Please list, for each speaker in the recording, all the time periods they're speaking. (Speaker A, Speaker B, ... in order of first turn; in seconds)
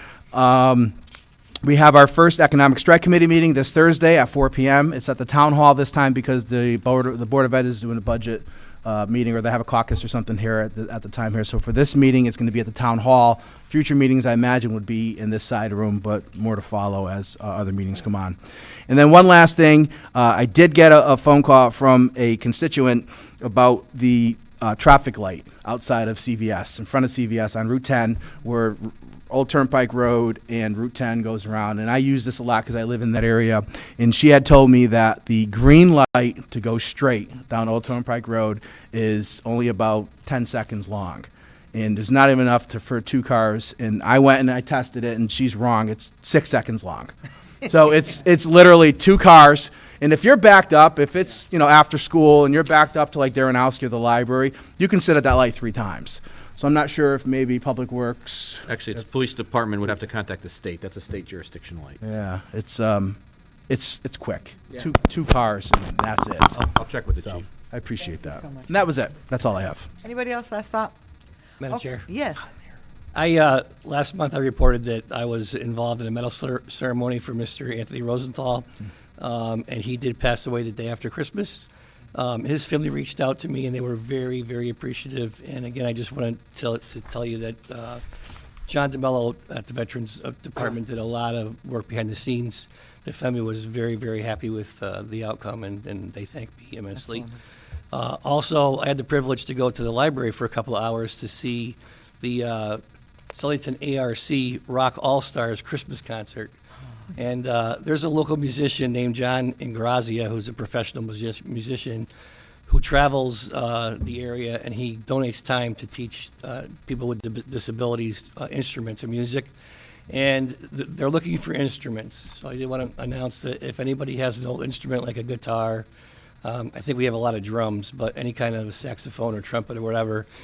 Speaker A: 0.3-0.9, 1.6-18.4, 18.9-58.7, 62.0-66.7, 67.2-69.9
Speaker B: 58.7-62.0, 66.6-67.5
Speaker C: 68.2-68.7, 70.0-70.9, 71.7-72.5
Speaker D: 71.6-72.0, 73.1-88.0, 88.7-97.3, 97.9-102.8, 103.3-106.5, 107.1-112.1, 112.7-119.5, 120.1-125.9, 126.4-130.3